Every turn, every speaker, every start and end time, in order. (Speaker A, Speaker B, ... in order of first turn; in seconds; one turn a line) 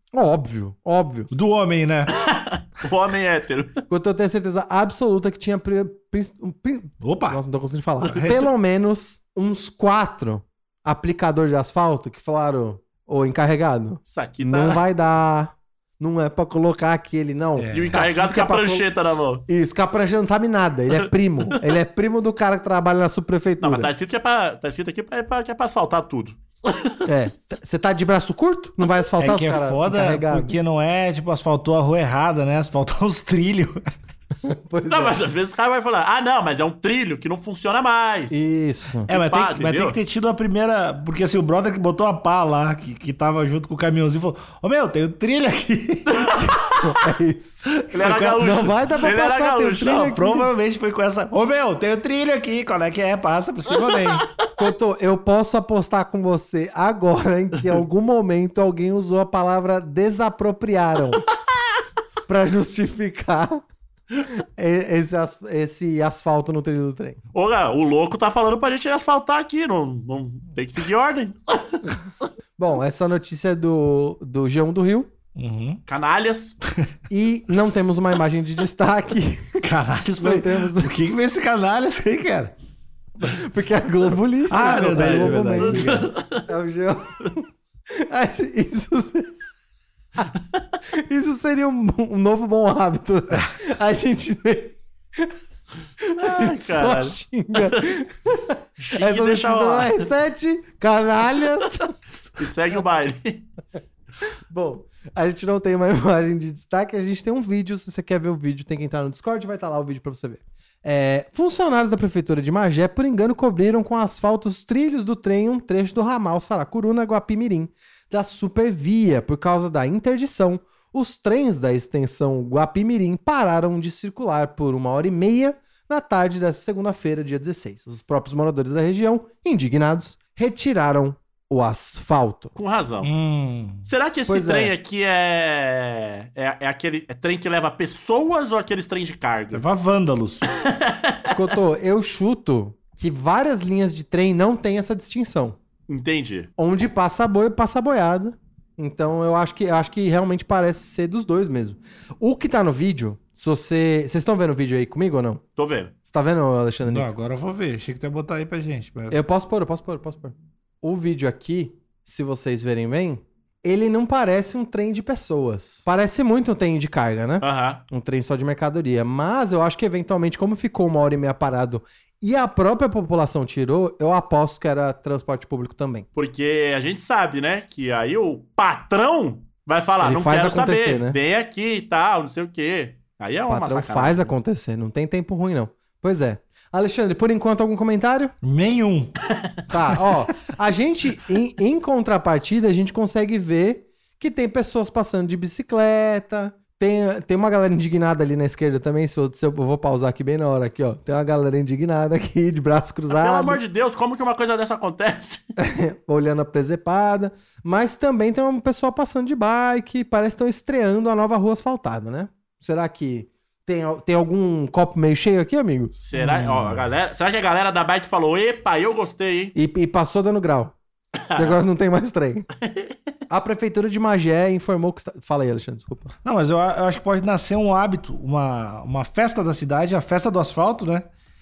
Speaker A: 0.1-1.3
Speaker B: 1.3-2.1
Speaker C: 2.2-3.8
Speaker A: 3.9-18.9
Speaker B: 7.0-7.4
Speaker C: 14.0-14.8
Speaker B: 17.6-18.0
Speaker C: 17.7-19.4
Speaker A: 19.5-23.9
Speaker C: 23.6-26.9
Speaker A: 27.1-30.6
Speaker B: 29.2-33.8
Speaker A: 34.4-35.2
Speaker C: 34.9-38.4
Speaker A: 38.3-39.1
Speaker B: 39.1-46.2
Speaker C: 39.1-40.0
Speaker C: 46.1-46.8
Speaker A: 46.7-47.7
Speaker B: 47.7-48.5
Speaker C: 47.9-50.1
Speaker A: 48.3-50.5
Speaker B: 49.9-54.2
Speaker A: 54.6-61.2
Speaker A: 62.3-63.6
Speaker A: 64.1-67.2
Speaker C: 67.3-71.9
Speaker A: 72.6-75.1
Speaker B: 75.3-75.8
Speaker C: 75.9-76.6
Speaker A: 77.1-79.6
Speaker B: 79.6-82.5
Speaker A: 80.2-81.0
Speaker A: 83.2-87.5
Speaker B: 84.5-86.1
Speaker C: 84.6-86.4
Speaker A: 88.1-89.3
Speaker A: 91.0-95.3
Speaker A: 96.0-102.4
Speaker C: 96.2-97.8
Speaker C: 98.8-100.1
Speaker C: 102.4-103.4
Speaker A: 104.5-132.5
Speaker C: 132.5-133.1
Speaker B: 133.0-133.8
Speaker C: 133.8-139.6
Speaker A: 134.3-134.7
Speaker B: 139.5-140.4
Speaker C: 140.7-141.3
Speaker A: 141.3-145.6
Speaker C: 145.9-146.5
Speaker A: 146.6-155.4
Speaker C: 155.6-155.9
Speaker A: 156.0-157.1
Speaker B: 156.8-159.2
Speaker A: 159.1-176.1
Speaker C: 167.4-167.8
Speaker C: 176.1-184.3
Speaker A: 180.0-181.2
Speaker A: 183.5-188.3
Speaker B: 188.4-189.1
Speaker A: 189.7-203.6
Speaker C: 203.1-205.4
Speaker A: 205.6-216.0
Speaker C: 216.0-219.5
Speaker B: 216.1-216.8
Speaker A: 219.5-220.7
Speaker A: 221.3-222.5
Speaker A: 223.3-226.1
Speaker B: 226.2-231.1